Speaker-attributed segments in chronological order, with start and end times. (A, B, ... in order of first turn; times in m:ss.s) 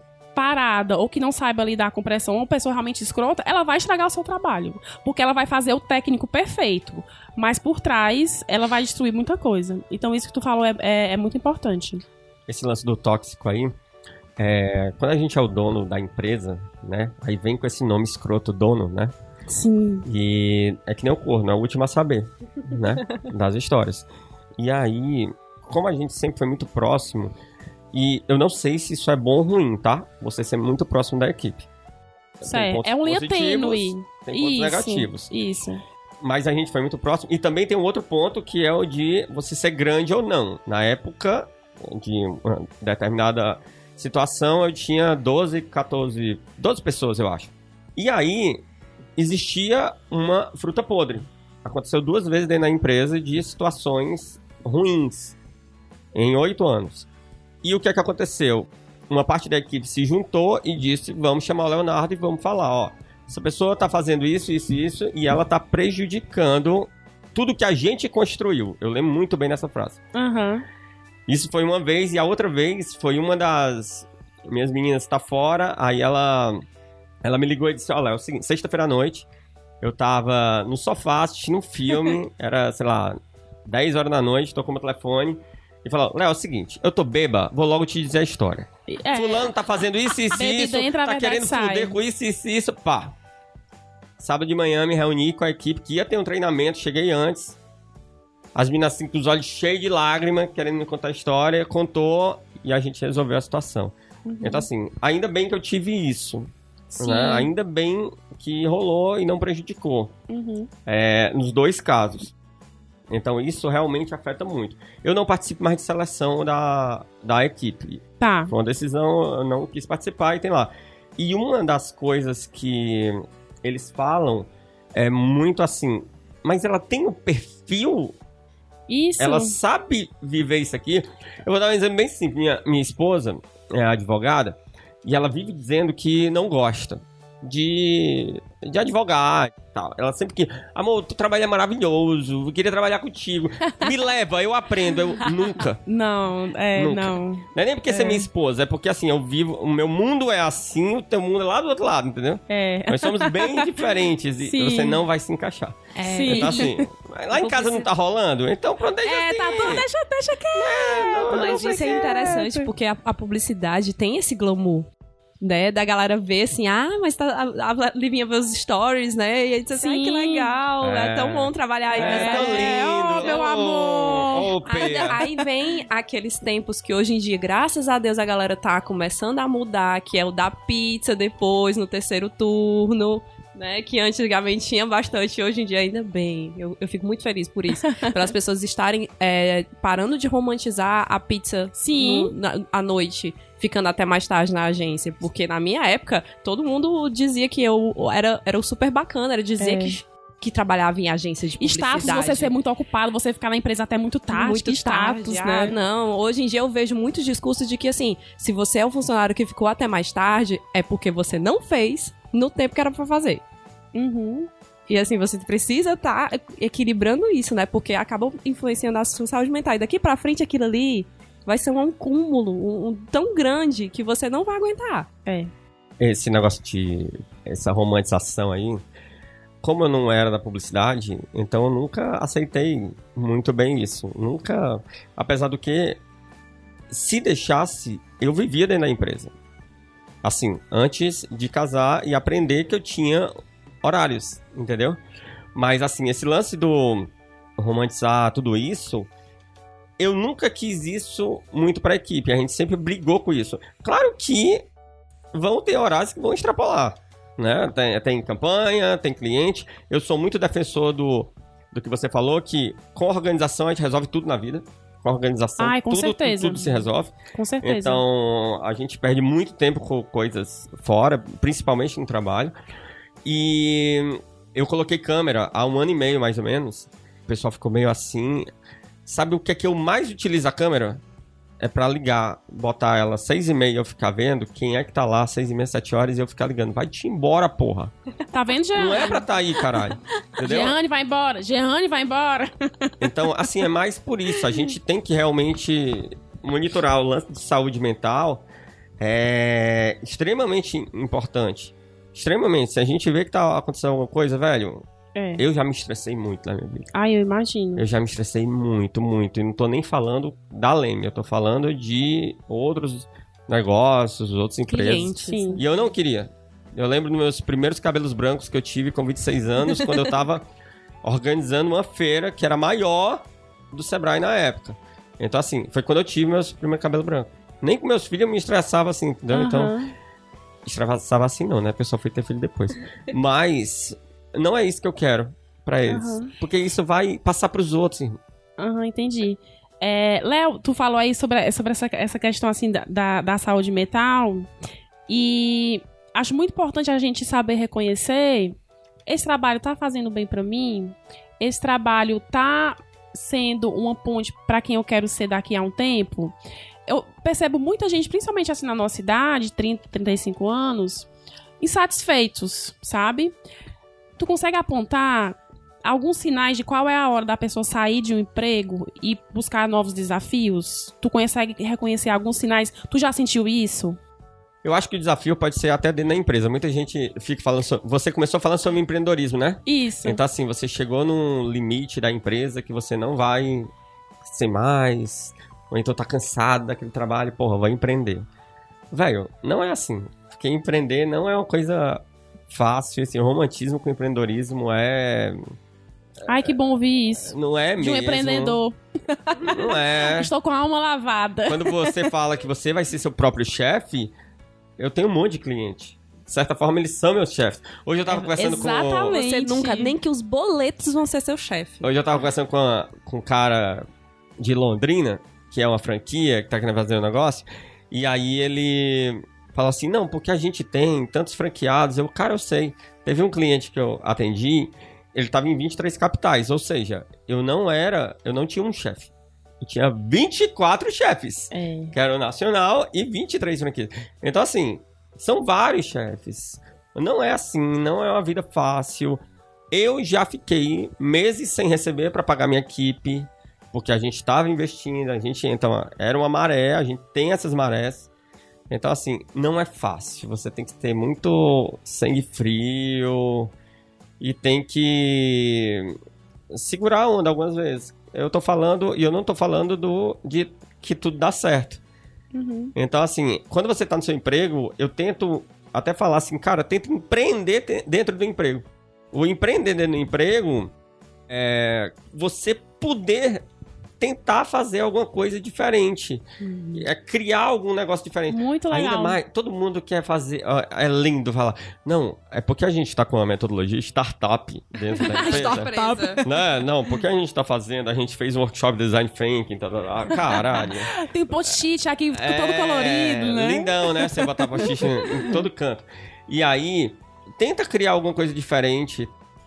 0:00.4-0:12.0 A
0:12.5-0:13.7 B
0:14.4-0:19.1 B
0:19.5-0:20.0 A
0:20.1-0:27.4 B
0:27.9-0:31.7 B
0:32.4-0:35.3 B
0:32.4-0:35.8 A
0:36.2-0:48.6 B
0:49.2-0:55.4 B
0:56.1-0:57.1 B
0:57.6-1:10.0 B
1:10.1-1:10.7 A
1:11.3-1:16.6 B
1:17.2-1:19.3 B
1:19.8-1:33.1 B
1:28.9-1:29.5 A
1:30.3-1:32.0 A
1:34.2-1:37.6 B
1:38.6-1:50.1 B
1:44.3-1:44.7 A
1:46.9-1:47.5 A
1:50.3-1:50.7 A
1:50.9-1:52.3 B
1:53.1-2:08.2 B
1:58.2-1:58.5 A
2:08.9-2:09.6 A
2:09.2-2:25.8 B
2:25.9-2:28.3 A
2:26.8-2:39.9 B
2:32.5-2:33.9 A
2:34.4-2:35.0 A
2:36.0-2:36.7 C
2:36.1-2:36.8 A
2:37.3-2:37.9 C
2:39.0-2:42.7 A
2:40.5-2:42.0 B
2:41.2-2:44.9 C
2:45.4-2:53.4 C
2:49.7-2:50.6 A
2:50.8-2:55.2 B
2:51.9-2:55.2 A
2:54.6-3:22.5 C
3:07.8-3:08.3 A
3:11.8-3:12.3 A
3:19.6-3:20.0 A
3:21.6-3:25.8 A
3:24.3-3:33.4 C
3:34.0-3:34.5 A
3:34.9-3:45.1 C
3:45.3-3:45.5 A
3:46.0-3:48.8 B
3:49.6-3:56.0 B
3:56.9-3:59.3 B
4:00.2-4:03.3 B
4:03.8-4:05.0 B
4:05.6-4:09.1 B
4:10.0-4:14.6 B
4:15.3-4:32.5 B
4:25.6-4:28.0 A
4:33.2-4:38.5 B
4:39.1-4:41.0 B
4:41.6-4:47.9 B
4:48.3-4:49.3 A
4:48.8-4:50.8 B
4:50.4-4:52.9 A
4:53.0-4:58.4 B
4:59.0-5:04.9 B
5:05.2-5:05.4 A
5:05.4-5:06.9 B
5:06.9-5:07.8 A
5:07.8-5:20.5 B
5:14.7-5:15.6 C
5:15.3-5:15.6 A
5:21.0-5:29.8 B
5:29.3-5:29.9 A
5:30.7-5:38.2 B
5:35.9-5:36.3 A
5:38.6-5:44.5 A
5:45.1-5:48.6 A
5:49.1-5:56.4 A
5:56.9-6:01.1 A
6:01.6-6:03.3 A
6:04.2-6:14.0 A
6:14.6-6:23.7 B
6:19.7-6:20.2 A
6:24.2-6:28.3 B
6:28.9-6:35.5 B
6:36.2-6:42.1 A
6:37.2-6:38.6 B
6:39.4-6:40.3 B
6:41.5-6:44.1 B
6:44.8-6:49.1 B
6:48.1-6:50.0 A
6:48.4-6:51.9 C
6:51.8-6:53.9 B
6:54.4-7:09.1 B
7:09.6-7:28.1 B
7:11.5-7:11.9 A
7:28.7-7:33.5 B
7:34.2-7:36.0 B
7:36.5-7:41.8 B
7:42.3-7:42.7 A
7:42.8-7:50.7 B
7:51.3-7:53.4 B
7:54.0-8:10.9 B
7:56.4-7:56.8 C
7:58.3-7:59.2 A
8:05.0-8:06.4 A
8:05.0-8:06.2 C
8:10.1-8:15.4 A
8:12.1-8:19.1 B